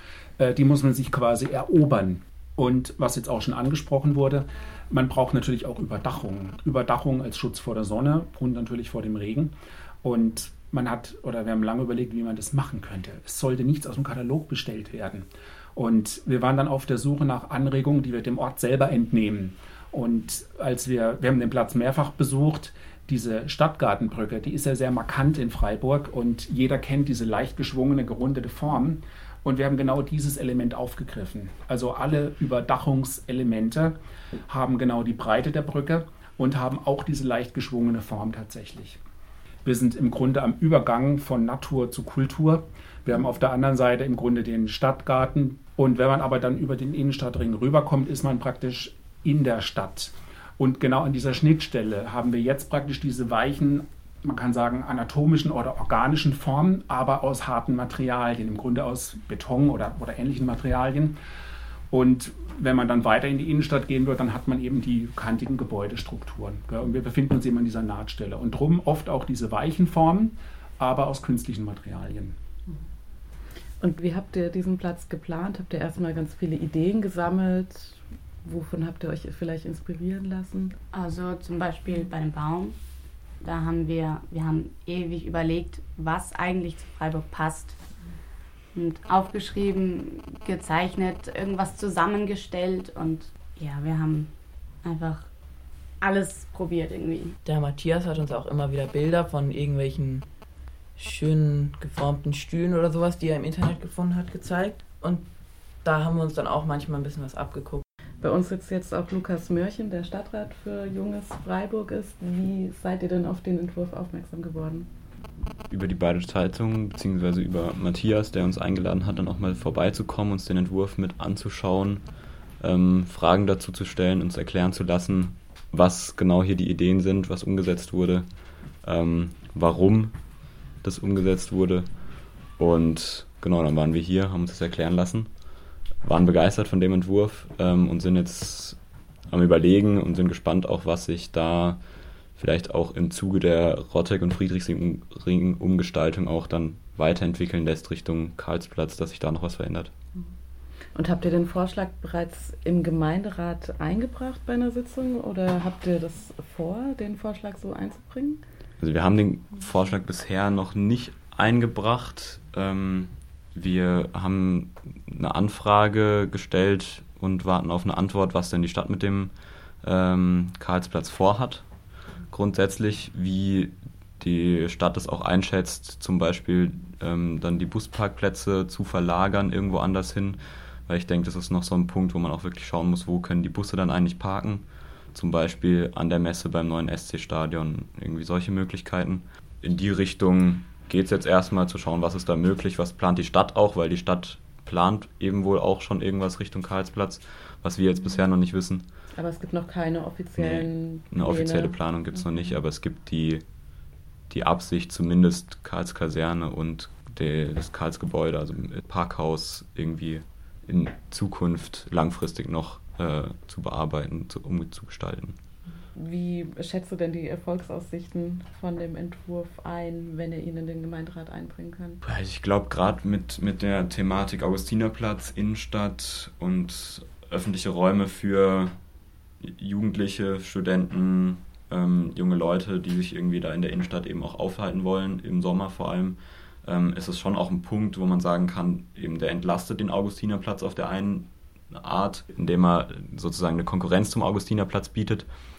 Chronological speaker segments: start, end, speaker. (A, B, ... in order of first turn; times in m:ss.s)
0:00.4-0:34.0 A
0:34.5-0:39.0 A
0:39.6-1:01.2 A
1:01.9-1:12.4 A
1:13.8-1:20.8 B
1:20.9-1:22.8 C
1:23.4-1:27.8 C
1:28.7-1:34.3 C
1:34.8-1:35.3 C
1:36.0-1:37.4 C
1:37.4-1:40.3 D
1:41.0-1:47.8 D
1:48.2-1:54.9 B
1:55.7-2:15.4 E
2:16.0-2:29.9 E
2:30.9-2:38.4 B
2:38.8-2:51.7 E
2:52.2-3:19.0 E
3:19.1-3:21.8 B
3:20.4-3:23.4 E
3:24.3-3:35.4 E
3:35.9-3:42.0 B
3:42.0-3:48.8 E
3:49.4-4:05.3 E